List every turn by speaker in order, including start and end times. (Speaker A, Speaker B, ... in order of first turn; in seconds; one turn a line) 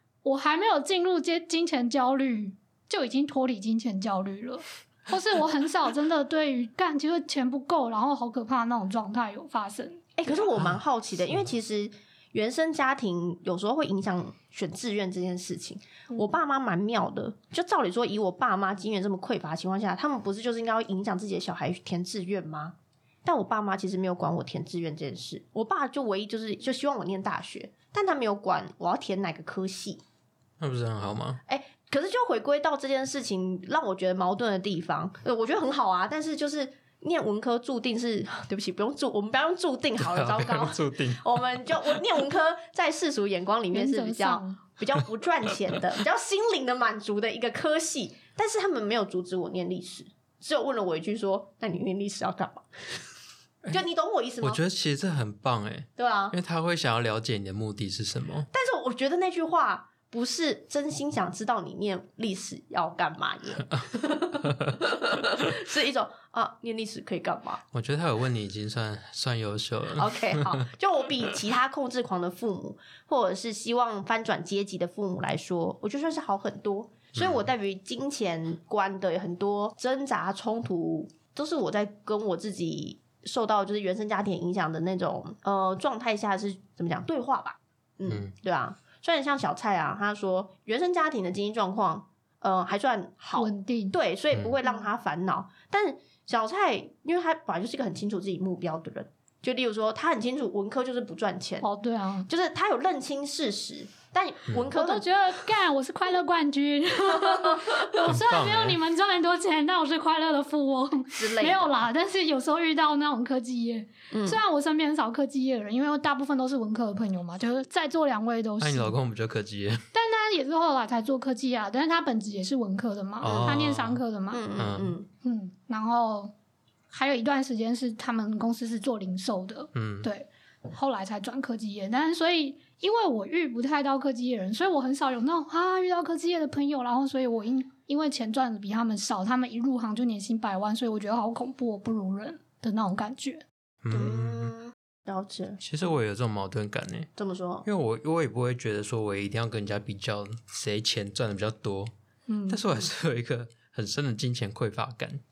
Speaker A: 0.2-10.1
Speaker B: 10.2-30.0
Speaker C: 30.6-31.4
Speaker B: 31.5-53.0
Speaker C: 40.0-42.0
Speaker A: 43.7-44.6
Speaker B: 53.7-54.6
Speaker C: 54.4-58.5
Speaker B: 56.0-56.4
Speaker B: 58.5-67.6
Speaker C: 64.4-64.8
Speaker C: 67.7-70.7
Speaker B: 70.0-101.7
Speaker C: 77.2-77.5
Speaker C: 88.1-88.3
Speaker A: 93.3-94.0
Speaker A: 101.6-102.3
Speaker B: 102.3-105.1
Speaker A: 104.7-119.0
Speaker B: 107.3-107.6
Speaker C: 108.0-108.8
Speaker B: 111.2-111.7
Speaker B: 114.1-114.4
Speaker C: 118.6-119.8
Speaker A: 119.9-124.4
Speaker C: 123.2-124.0
Speaker B: 124.3-125.1
Speaker C: 124.6-125.0
Speaker A: 125.2-126.3
Speaker A: 126.9-143.4
Speaker C: 129.8-130.1
Speaker C: 143.8-144.5
Speaker B: 143.9-145.6
Speaker C: 145.6-147.1
Speaker B: 147.2-147.7
Speaker C: 147.7-151.9
Speaker A: 152.3-152.6
Speaker C: 152.5-155.2